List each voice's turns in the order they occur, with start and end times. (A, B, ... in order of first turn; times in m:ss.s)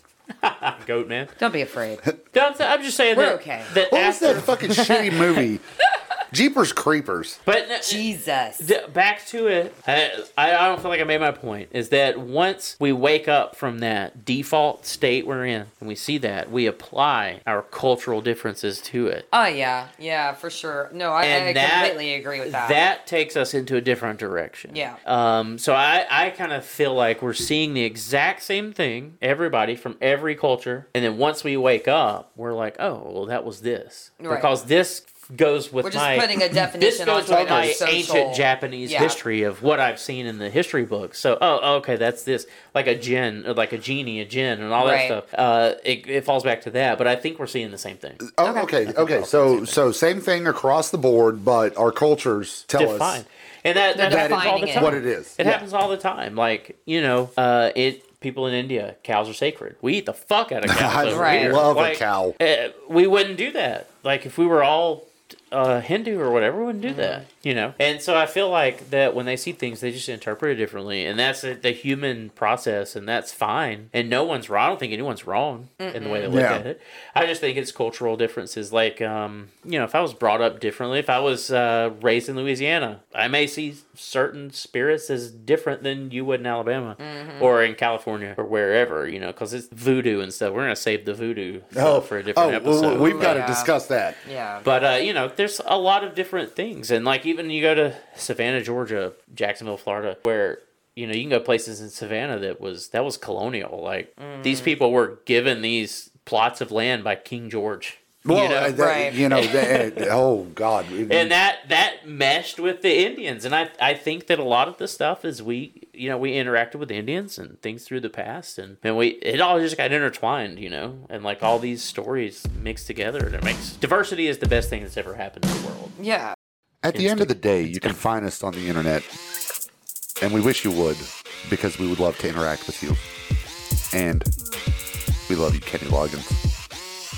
0:00.4-0:01.3 A
0:01.4-0:02.1 B
0:02.3-0:04.8 A
0:03.1-0:03.7 B
0:03.8-0:05.6 C
0:04.7-0:05.4 B
0:06.3-0:07.4 C
0:07.4-0:08.0 A
0:07.8-0:08.7 B
0:08.6-0:19.2 A
0:19.3-0:22.8 B
0:21.2-0:48.3 A
0:24.7-0:25.0 B
0:34.2-0:34.5 B
0:35.8-0:39.2 B
0:37.3-0:37.7 C
0:44.8-0:45.2 B
0:48.3-0:53.2 C
0:48.4-0:48.7 B
0:48.8-0:49.8 A
0:52.7-1:33.4 A
0:53.9-0:55.0 B
0:54.0-0:55.6 C
1:00.6-1:02.4 C
1:01.1-1:01.7 B
1:06.8-1:07.2 B
1:15.8-1:16.4 B
1:16.3-1:16.6 C
1:27.0-1:27.5 B
1:31.7-1:34.2 C
1:32.8-1:34.6 B
1:34.6-1:50.1 A
1:44.2-1:44.8 B
1:48.2-1:51.3 C
1:48.7-1:49.2 B
1:51.1-2:05.9 A
2:06.0-2:06.3 B
2:06.8-2:09.1 C
2:06.9-2:08.0 A
2:10.2-2:13.0 C
2:13.9-2:14.3 C
2:15.3-2:16.4 C